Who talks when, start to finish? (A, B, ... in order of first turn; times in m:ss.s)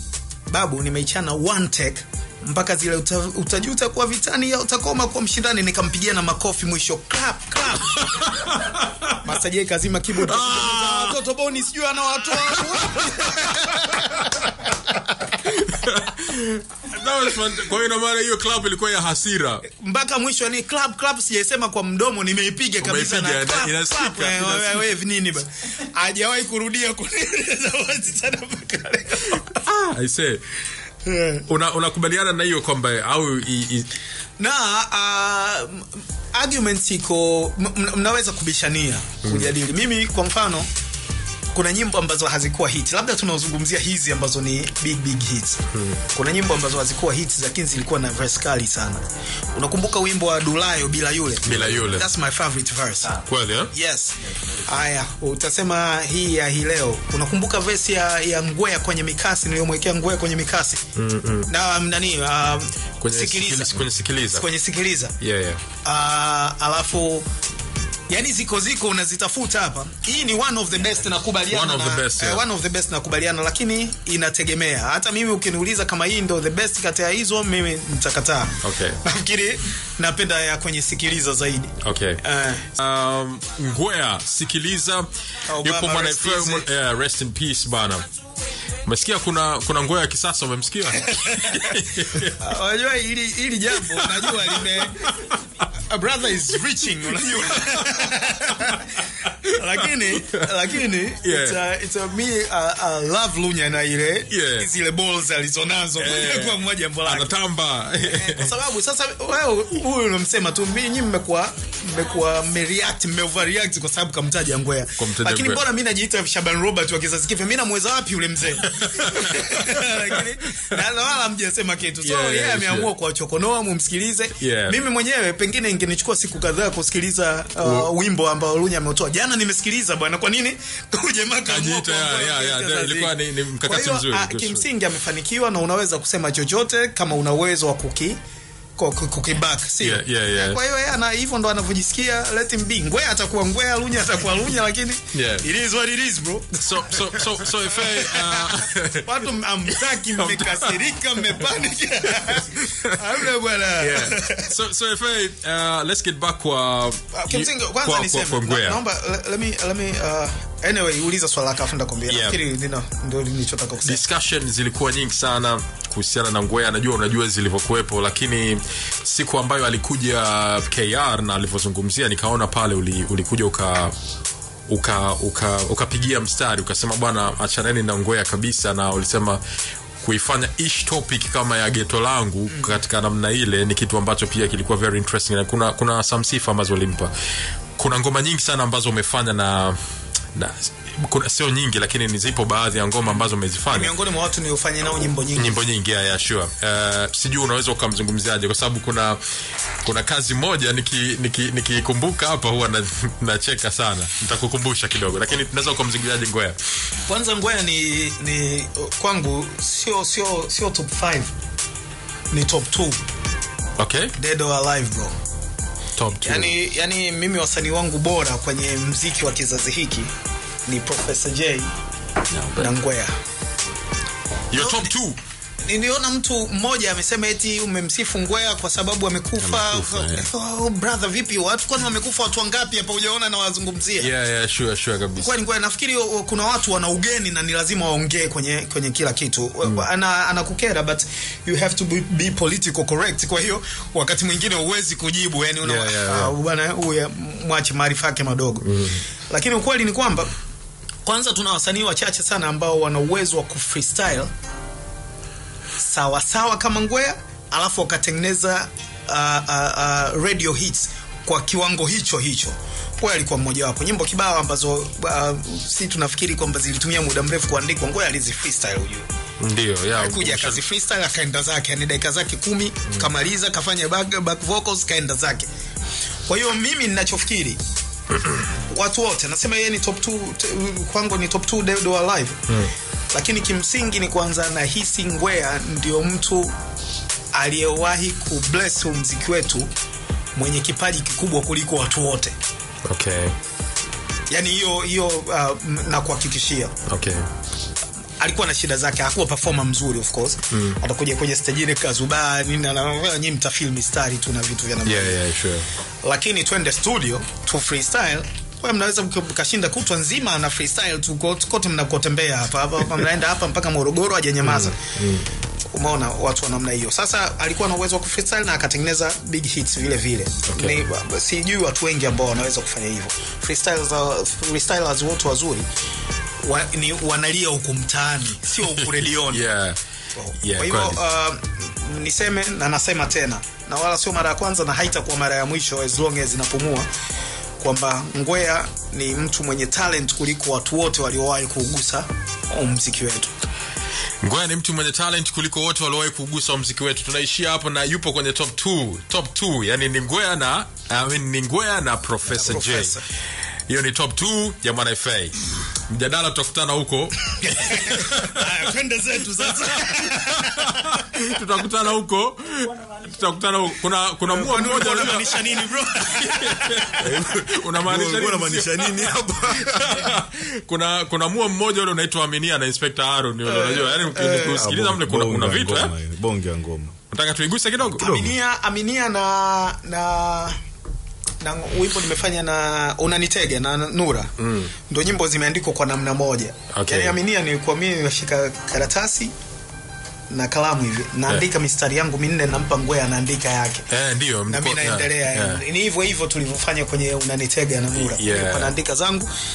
0:00.5-0:08.3 A
0:07.9-0:09.3 B
0:09.2-0:15.1 A
0:10.1-0:11.2 B
0:12.5-0:14.5 B
0:15.3-0:19.7 B
0:19.7-0:29.6 A
0:22.8-0:24.9 B
0:29.3-0:30.4 B
0:31.0-0:31.4 A
0:31.4-0:33.9 B
0:34.4-0:40.7 A
0:39.2-0:39.5 B
0:41.5-0:53.2 A
0:45.7-0:46.0 B
0:51.4-0:52.1 B
0:53.2-0:53.7 B
0:53.7-1:00.8 A
1:01.0-1:01.5 B
1:01.5-1:05.1 A
1:03.0-1:04.5 B
1:05.2-1:05.6 B
1:05.8-1:07.3 A
1:08.1-1:22.6 A
1:11.5-1:12.4 B
1:18.6-1:19.0 B
1:21.8-1:28.0 B
1:25.5-1:26.7 A
1:28.8-1:32.4 B
1:31.0-1:35.1 A
1:33.8-1:35.4 B
1:35.9-1:38.9 A
1:37.4-1:40.5 B
1:39.4-1:47.4 A
1:41.2-1:41.6 B
1:44.3-1:44.7 B
1:46.0-1:48.5 B
1:48.0-2:18.2 A
1:55.0-1:55.6 B
1:58.7-2:00.1 B
2:02.0-2:02.9 B
2:04.4-2:04.8 B
2:07.6-2:07.9 B
2:11.5-2:14.6 B
2:18.8-2:34.5 A
2:19.8-2:20.6 B
2:25.1-2:25.4 B
2:26.6-2:29.1 B
2:30.1-2:30.8 B
2:32.2-2:33.1 B
2:33.8-2:38.8 B
2:37.1-2:44.0 A
2:42.1-2:42.4 B
2:43.8-2:53.9 B
2:54.7-2:59.4 B
3:00.0-3:07.1 B
3:02.5-3:02.8 A
3:07.8-3:09.8 B
3:10.3-3:13.9 B
3:13.7-3:15.7 A
3:15.4-3:19.2 B
3:19.8-3:26.6 B
3:27.1-3:31.3 A
3:32.3-3:33.0 A
3:33.8-3:34.2 B
3:34.2-3:35.2 A
3:36.0-3:36.5 B
3:36.2-3:40.1 A
3:40.6-3:41.7 A
3:42.3-3:42.7 C
3:42.6-3:43.1 A
3:44.5-3:45.2 B
3:44.6-3:44.9 A
3:45.6-3:54.1 A
3:49.4-3:50.3 C
3:54.0-3:55.3 B
3:55.2-4:08.7 A
4:05.6-4:06.3 B
4:08.6-4:09.0 B
4:09.3-4:10.3 A
4:11.0-4:14.3 A
4:15.8-4:29.1 A
4:29.4-4:30.6 B
4:29.9-4:35.5 A
4:36.2-4:37.6 A
4:38.5-4:42.6 A
4:43.1-4:46.6 A
4:47.3-4:49.7 A
4:50.3-4:52.4 A
4:52.8-4:53.4 B
4:54.3-4:56.8 A
4:56.9-4:57.3 B
4:58.2-5:05.2 A
5:00.5-5:00.8 B
5:04.8-5:05.7 B
5:06.0-5:14.8 A
5:14.4-5:15.3 B
5:15.7-5:25.7 A
5:20.5-5:20.9 B
5:26.4-5:29.4 A
5:28.6-5:29.8 B
5:30.2-5:36.9 A
5:30.4-5:31.0 B
5:37.6-5:43.3 A
5:44.2-5:53.0 B
5:52.2-5:53.0 A
5:53.7-5:58.5 B
5:57.4-6:01.2 A
5:59.9-6:15.9 B
6:04.2-6:06.9 A
6:06.9-6:10.2 C
6:13.4-6:14.6 A
6:14.3-6:17.0 C
6:17.1-6:18.1 B
6:17.9-6:20.6 A
6:18.0-6:18.4 C
6:21.4-6:29.3 A
6:24.4-6:24.7 B
6:26.7-6:27.1 B
6:30.3-6:33.9 A
6:33.9-6:35.6 B
6:34.5-6:39.3 A
6:37.9-6:38.7 B